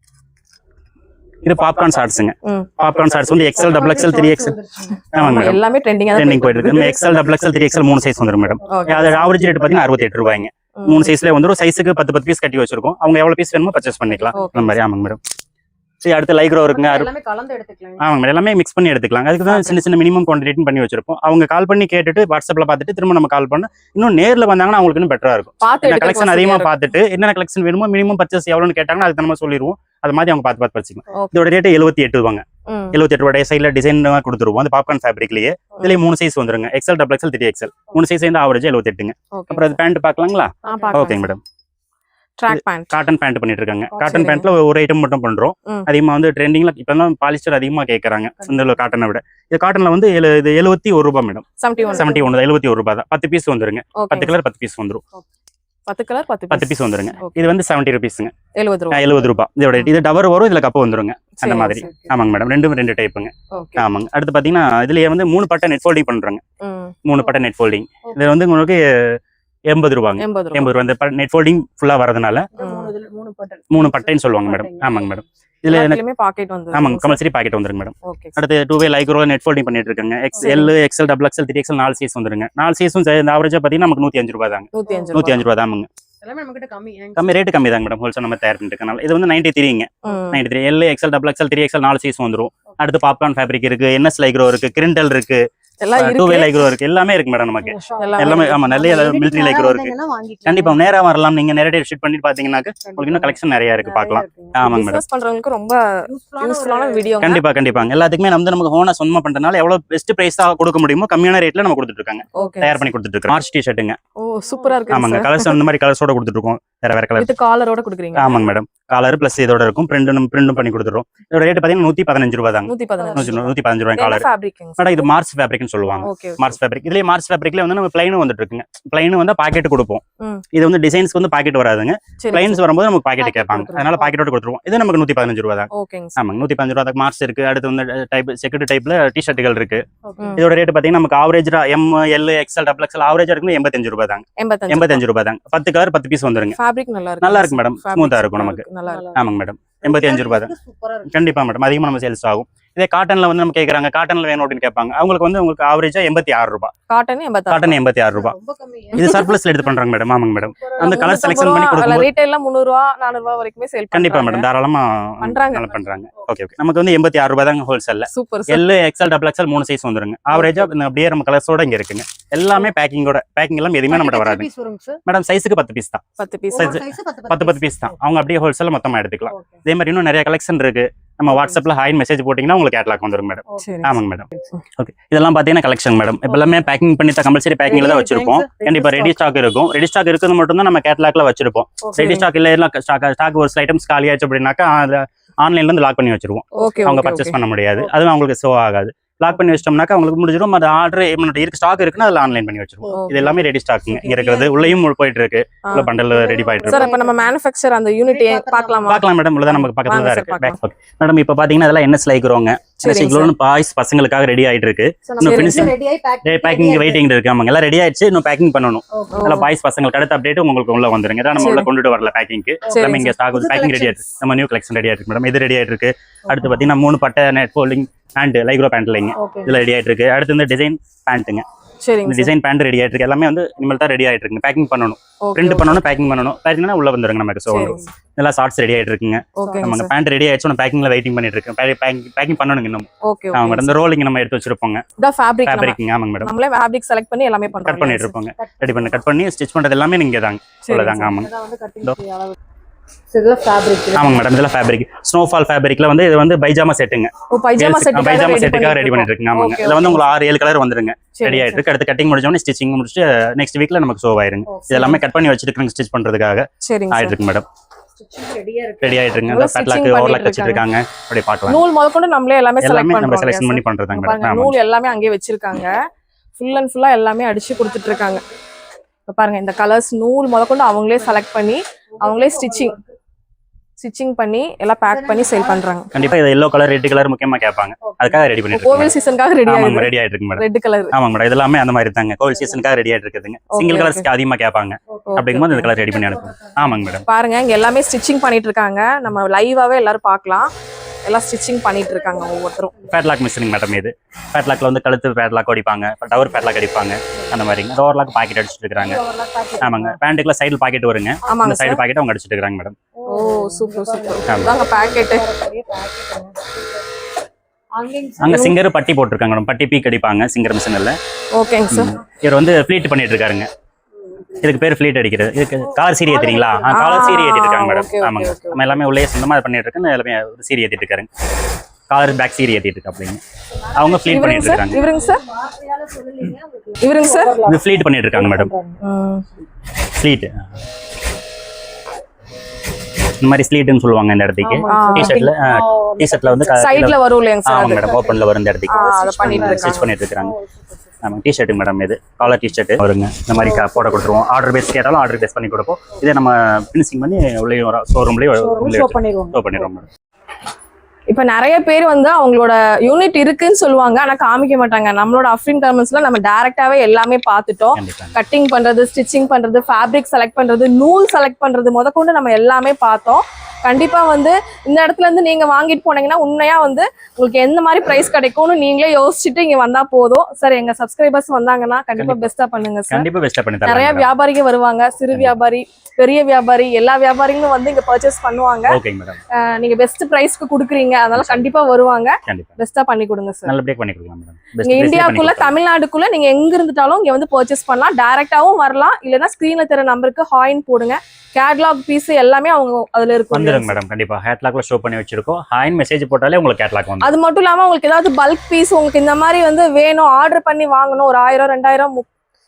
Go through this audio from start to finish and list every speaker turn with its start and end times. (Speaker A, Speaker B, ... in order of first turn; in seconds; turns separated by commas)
Speaker A: 1.4-4.5, Speaker B: 3.5-5.1, Speaker A: 5.1-5.6, Speaker C: 5.1-7.0, Speaker A: 6.1-15.2, Speaker C: 8.7-9.3, Speaker B: 8.7-9.8, Speaker C: 10.8-11.1, Speaker C: 14.3-14.8, Speaker A: 16.0-17.1, Speaker B: 16.7-18.0, Speaker A: 18.0-41.4, Speaker C: 19.5-19.8, Speaker C: 25.6-26.7, Speaker C: 32.7-33.0, Speaker C: 39.3-39.8, Speaker B: 40.6-41.1, Speaker C: 40.6-41.3, Speaker C: 42.4-42.9, Speaker A: 42.5-55.0, Speaker C: 43.9-44.5, Speaker C: 51.6-52.2, Speaker B: 51.9-52.2, Speaker C: 54.0-54.3, Speaker C: 55.9-57.4, Speaker A: 56.5-58.3, Speaker C: 58.5-59.2, Speaker A: 58.9-66.4, Speaker C: 61.4-61.9, Speaker B: 61.8-62.1, Speaker C: 63.5-63.8, Speaker C: 66.6-66.9, Speaker A: 67.0-69.2, Speaker A: 69.7-72.5, Speaker C: 70.2-70.7, Speaker B: 72.5-75.1, Speaker C: 72.6-72.9, Speaker A: 73.7-76.0, Speaker C: 75.7-77.2, Speaker A: 76.7-85.9, Speaker C: 78.0-78.4, Speaker C: 80.4-80.7, Speaker C: 84.7-85.5, Speaker B: 86.2-87.4, Speaker A: 87.2-95.4, Speaker C: 90.0-90.4, Speaker C: 95.8-96.7, Speaker A: 95.9-105.0, Speaker B: 97.6-100.8, Speaker C: 98.0-98.7, Speaker B: 102.8-104.6, Speaker C: 104.6-105.8, Speaker B: 106.0-107.3, Speaker C: 106.4-107.4, Speaker A: 107.2-114.0, Speaker C: 112.4-112.8, Speaker C: 114.2-115.6, Speaker B: 114.5-115.2, Speaker A: 114.9-117.3, Speaker C: 117.2-118.4, Speaker A: 118.1-130.0, Speaker C: 122.7-123.4, Speaker B: 123.0-123.5, Speaker C: 123.9-125.1, Speaker C: 126.0-126.5, Speaker A: 130.5-139.8, Speaker C: 132.2-132.6, Speaker B: 133.2-134.0, Speaker C: 133.8-134.1, Speaker C: 135.7-136.2, Speaker B: 140.1-140.4, Speaker A: 140.3-146.6, Speaker C: 144.4-145.0, Speaker C: 146.6-149.1, Speaker A: 147.2-150.5, Speaker B: 148.8-149.2, Speaker B: 149.8-151.1, Speaker A: 151.1-156.7, Speaker C: 156.9-157.8, Speaker A: 157.5-158.3, Speaker B: 158.1-159.3, Speaker A: 158.9-162.1, Speaker C: 159.0-159.3, Speaker B: 160.6-161.0, Speaker C: 160.8-164.4, Speaker A: 163.9-174.5, Speaker C: 165.2-165.8, Speaker C: 168.1-168.6, Speaker B: 173.9-175.0, Speaker A: 175.1-176.0, Speaker C: 176.2-176.8, Speaker B: 176.5-177.9, Speaker A: 176.5-206.9, Speaker B: 179.3-179.6, Speaker B: 183.5-183.8, Speaker C: 183.6-184.0, Speaker B: 187.6-189.2, Speaker B: 191.8-192.2, Speaker C: 196.6-197.4, Speaker B: 202.8-204.7, Speaker C: 202.9-203.4, Speaker C: 205.7-205.9, Speaker B: 206.0-207.3, Speaker C: 206.6-210.6, Speaker B: 208.0-209.0, Speaker A: 208.9-231.4, Speaker C: 212.8-213.3, Speaker B: 215.1-217.0, Speaker C: 215.2-215.7, Speaker B: 218.9-219.3, Speaker C: 219.1-219.5, Speaker C: 221.3-221.7, Speaker B: 222.7-224.0, Speaker C: 222.7-223.1, Speaker B: 229.2-229.6, Speaker C: 231.8-232.3, Speaker A: 232.0-244.8, Speaker C: 235.3-235.8, Speaker C: 237.5-237.8, Speaker C: 239.3-239.9, Speaker B: 239.4-239.7, Speaker C: 243.1-243.8, Speaker C: 245.0-248.2, Speaker A: 245.4-246.3, Speaker A: 247.6-251.3, Speaker B: 248.4-248.9, Speaker C: 250.6-251.1, Speaker B: 251.1-252.3, Speaker B: 253.1-254.2, Speaker A: 253.9-267.4, Speaker C: 257.3-260.1, Speaker C: 261.1-261.6, Speaker B: 264.4-265.0, Speaker C: 266.6-267.2, Speaker B: 268.0-269.1, Speaker A: 268.8-271.6, Speaker C: 269.3-270.6, Speaker C: 271.5-275.8, Speaker A: 272.6-274.6, Speaker C: 276.4-278.2, Speaker B: 277.7-278.3, Speaker C: 279.1-282.8, Speaker B: 282.0-282.8, Speaker C: 283.8-285.9, Speaker B: 284.9-285.6, Speaker A: 285.9-288.9, Speaker B: 287.8-288.2, Speaker C: 288.5-290.9, Speaker A: 289.4-297.0, Speaker C: 293.5-294.1, Speaker C: 295.1-295.7, Speaker B: 295.9-296.6, Speaker C: 297.1-300.5, Speaker C: 301.0-302.7, Speaker A: 302.9-309.0, Speaker B: 308.8-310.0, Speaker A: 309.6-312.7, Speaker C: 311.3-311.8, Speaker B: 313.0-316.8, Speaker C: 313.1-315.2, Speaker A: 314.2-314.6, Speaker B: 317.8-318.5, Speaker A: 318.2-320.9, Speaker C: 321.4-322.0, Speaker A: 321.7-323.5, Speaker A: 324.4-331.1, Speaker B: 325.7-327.0, Speaker C: 326.7-328.7, Speaker A: 331.9-334.8, Speaker B: 333.7-338.8, Speaker C: 334.1-335.2, Speaker C: 336.8-337.4, Speaker A: 337.4-338.5, Speaker C: 338.8-339.2, Speaker A: 339.9-340.3, Speaker A: 343.2-350.4, Speaker B: 344.4-346.6, Speaker C: 344.6-345.3, Speaker C: 346.5-348.2, Speaker B: 348.7-350.8, Speaker C: 348.7-349.9, Speaker A: 351.0-359.9, Speaker B: 353.4-354.2, Speaker B: 358.3-359.7, Speaker C: 361.1-383.1, Speaker A: 367.7-368.2, Speaker A: 382.0-382.2, Speaker A: 382.9-384.1, Speaker C: 383.6-388.8, Speaker A: 388.7-389.2, Speaker C: 389.3-393.5, Speaker A: 391.1-391.5, Speaker A: 392.2-392.5, Speaker A: 393.4-395.6, Speaker C: 394.6-403.7, Speaker A: 403.3-407.1, Speaker C: 407.0-412.1